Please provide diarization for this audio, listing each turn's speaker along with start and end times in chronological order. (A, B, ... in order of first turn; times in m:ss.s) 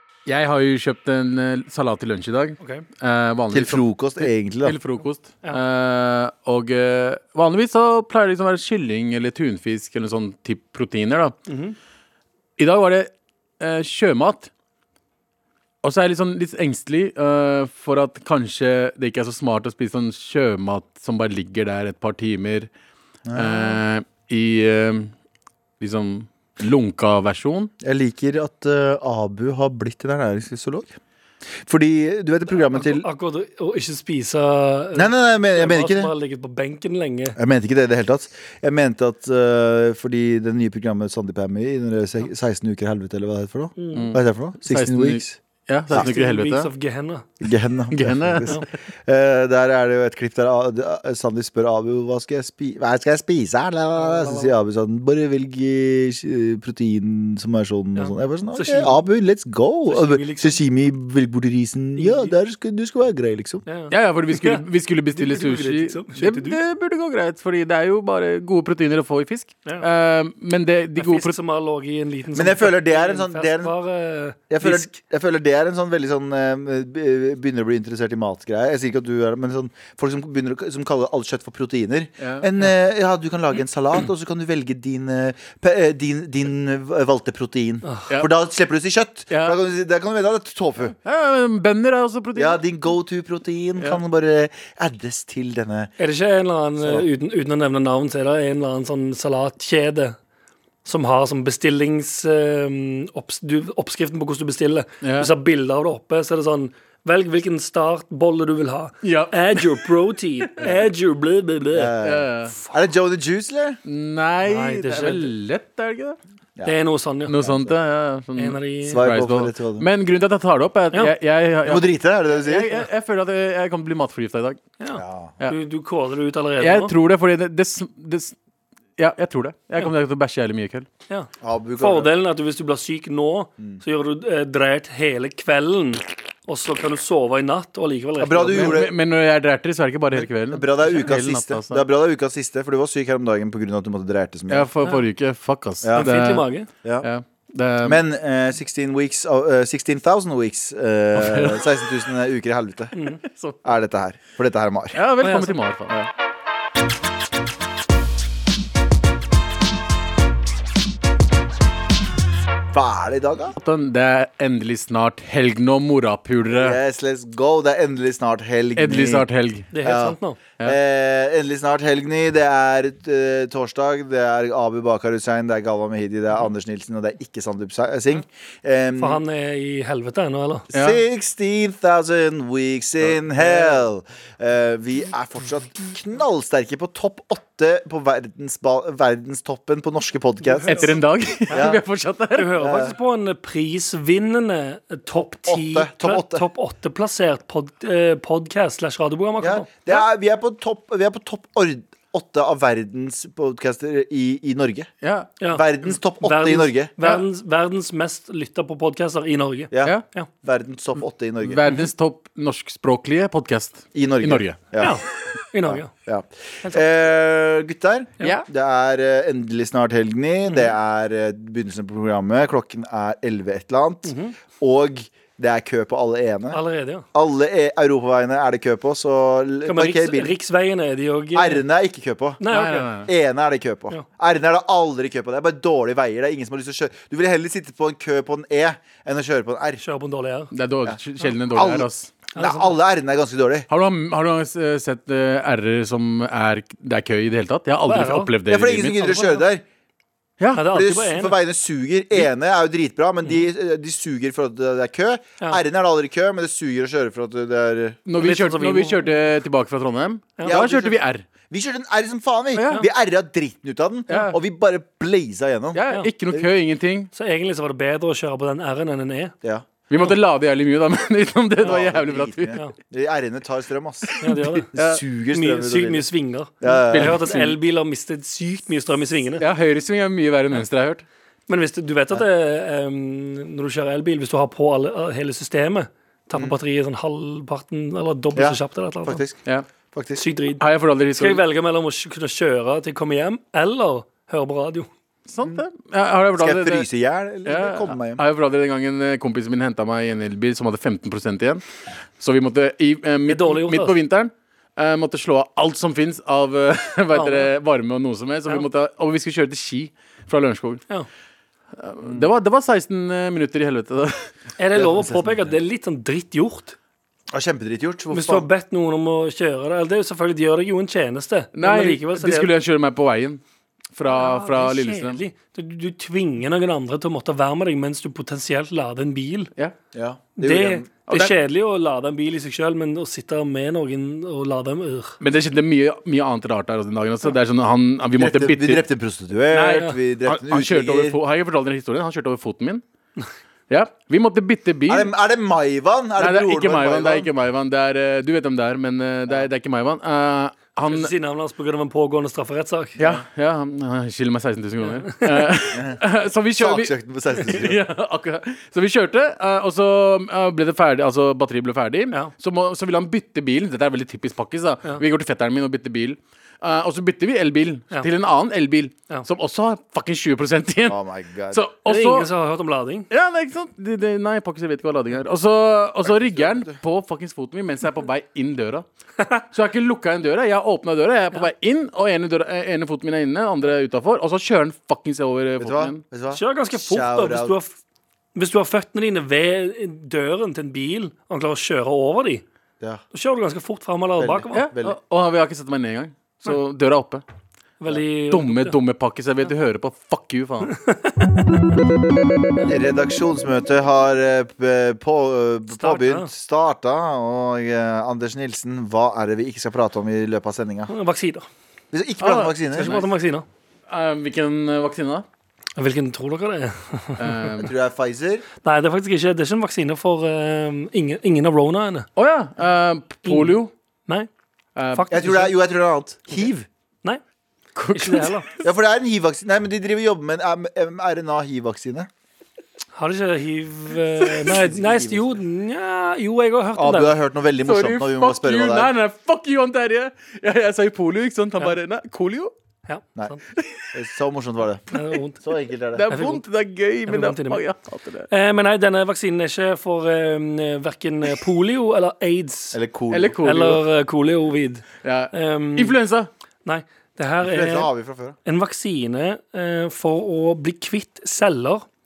0:00.3-0:11.4 A
0:02.6-0:02.8 B
0:03.5-0:04.8 C
0:11.5-0:11.8 B
0:12.6-0:14.5 A
0:15.8-0:22.7 A
0:23.3-0:23.8 C
0:23.4-0:25.1 A
0:25.8-0:27.7 A
0:27.8-0:31.0 C
0:31.6-0:33.1 C
0:32.5-0:37.4 B
0:35.0-0:36.1 C
0:37.4-0:45.4 C
0:43.8-0:44.1 B
0:43.9-0:46.7 A
0:45.9-0:47.3 B
0:47.4-1:03.6 C
0:47.9-0:48.8 A
0:54.0-0:54.5 B
0:58.0-0:59.0 B
0:59.9-1:00.6 B
1:02.0-1:02.3 B
1:03.7-1:06.6 B
1:03.9-1:11.4 A
1:11.0-1:14.9 B
1:12.3-1:13.7 C
1:14.5-1:31.0 C
1:22.2-1:22.5 A
1:29.3-1:29.6 A
1:31.0-1:32.6 A
1:32.4-1:35.9 C
1:36.0-1:40.2 B
1:36.8-1:37.1 C
1:40.8-1:51.9 B
1:45.0-1:45.3 A
1:49.0-1:49.9 A
1:51.7-1:53.8 C
1:52.0-1:52.5 A
1:53.9-1:56.2 A
1:54.4-1:55.3 B
1:56.6-1:57.4 B
1:57.3-2:04.6 A
1:57.3-1:57.7 C
1:58.4-1:59.0 B
1:58.9-1:59.9 C
2:01.6-2:02.7 C
2:04.8-2:06.9 B
2:04.9-2:05.4 C
2:06.6-2:08.4 A
2:09.0-2:10.9 A
2:11.1-2:18.8 B
2:11.4-2:12.1 C
2:18.2-2:18.9 C
2:18.5-2:21.8 A
2:20.1-2:24.7 C
2:24.5-2:26.5 A
2:25.8-2:26.1 C
2:26.0-2:26.7 B
2:27.0-2:28.0 A
2:27.8-2:32.9 C
2:31.2-2:31.8 A
2:32.9-2:33.2 B
2:33.2-2:33.6 A
2:33.6-2:35.0 C
2:34.9-2:36.1 A
2:35.2-2:35.6 B
2:42.7-2:43.5 C
2:43.6-2:46.8 A
2:46.5-2:49.3 C
2:48.8-2:49.7 A
2:49.7-2:50.4 B
2:49.8-2:59.2 C
2:59.0-3:00.7 B
3:00.7-3:10.9 C
3:00.7-3:01.0 A
3:03.4-3:03.8 B
3:10.5-3:10.9 B
3:10.7-3:12.6 A
3:11.5-3:11.8 C
3:12.4-3:20.0 B
3:12.6-3:13.0 C
3:15.1-3:16.5 C
3:19.4-3:24.9 C
3:25.0-3:25.3 A
3:25.4-3:25.7 B
3:25.5-3:27.0 C
3:26.2-3:30.3 B
3:29.7-3:31.6 C
3:31.4-3:34.7 A
3:33.9-3:35.0 C
3:34.8-3:35.9 B
3:35.7-3:46.6 C
3:44.0-3:44.4 B
3:46.5-3:47.1 B
3:47.1-3:50.3 C
3:49.7-3:51.6 B
3:51.3-3:59.8 C
3:52.4-3:52.9 B
3:52.5-3:53.1 A
3:59.8-4:00.5 B
4:00.5-4:02.1 A
4:00.8-4:03.7 C
4:02.4-4:02.8 B
4:03.7-4:09.2 A
4:07.9-4:08.3 B
4:08.5-4:09.6 C
4:09.1-4:09.4 B
4:10.4-4:10.7 A
4:10.6-4:11.4 B
4:10.6-4:18.0 C
4:18.1-4:21.2 A
4:18.2-4:19.2 B
4:20.4-4:25.8 C
4:22.6-4:22.8 A
4:24.1-4:24.4 A
4:25.7-4:27.1 A
4:27.1-4:29.4 B
4:29.9-4:32.6 A
4:31.6-4:36.1 C
4:34.1-4:35.0 A
4:34.2-4:34.7 B
4:35.3-4:39.4 B
4:36.6-4:37.3 C
4:36.9-4:37.6 A
4:39.4-4:41.0 A
4:41.5-4:49.2 B
4:48.4-4:49.4 C
4:49.9-4:50.2 C
4:50.2-4:50.6 B
4:50.6-4:51.4 A
4:51.2-4:54.9 B
4:55.3-4:56.9 A
4:56.4-4:58.2 C
4:57.4-5:01.6 A
5:02.2-5:10.8 A
5:03.3-5:04.0 B
5:07.1-5:07.5 B
5:11.8-5:14.3 A
5:14.6-5:16.8 B
5:14.8-5:15.5 C
5:17.3-5:18.5 C
5:18.1-5:22.5 B
5:21.6-5:23.4 A
5:24.0-5:25.2 A
5:24.1-5:29.5 B
5:29.9-5:30.9 C
5:30.4-5:35.2 B
5:31.1-5:31.4 A
5:35.2-5:38.9 A
5:38.1-5:41.2 C
5:39.5-5:42.8 A
5:43.7-5:45.1 A
5:44.9-5:47.3 C
5:46.2-5:51.1 A
5:50.9-5:53.0 B
5:53.0-6:12.3 A
5:53.0-5:53.2 C
5:54.8-5:55.2 B
5:55.7-5:56.0 C
5:56.6-5:57.8 C
6:10.9-6:11.6 C
6:11.9-6:13.1 B
6:13.1-6:18.8 A
6:16.0-6:16.8 C
6:19.4-6:26.0 A
6:25.6-6:27.6 C
6:26.3-6:27.8 B
6:28.4-6:32.4 B
6:33.1-6:34.6 B
6:34.2-6:35.0 C
6:34.5-6:37.2 A
6:37.8-6:38.7 B
6:38.3-6:40.8 A
6:40.7-6:41.6 B
6:42.6-6:50.9 C
6:45.8-6:46.3 B
6:50.9-6:51.5 B
6:51.9-6:53.0 C
6:52.2-6:53.1 A
6:52.7-6:53.4 B
6:53.9-6:55.3 A
6:55.8-6:57.5 B
6:57.2-6:57.7 A
6:57.6-6:58.4 C
6:58.6-7:02.1 B
7:02.2-7:03.7 A
7:03.2-7:04.3 B
7:04.8-7:05.4 A
7:04.9-7:05.5 B
7:05.1-7:06.7 C
7:07.8-7:08.6 A
7:07.9-7:08.5 B
7:08.6-7:12.1 C
7:13.0-7:17.2 B
7:14.5-7:15.4 C
7:16.8-7:18.9 C
7:17.6-7:22.5 A
7:22.9-7:23.4 B
7:23.6-7:23.9 A
7:23.9-7:24.9 C
7:24.9-7:25.4 B
7:25.4-7:26.1 C
7:26.0-7:28.3 A
7:26.1-7:26.4 B
7:27.1-7:27.6 B
7:28.3-7:32.8 B
7:32.7-7:33.4 C
7:33.1-7:33.8 A
7:33.4-7:36.0 B
7:35.0-7:36.3 A
7:36.6-7:37.9 B
7:37.4-7:38.4 C
7:38.4-7:41.9 B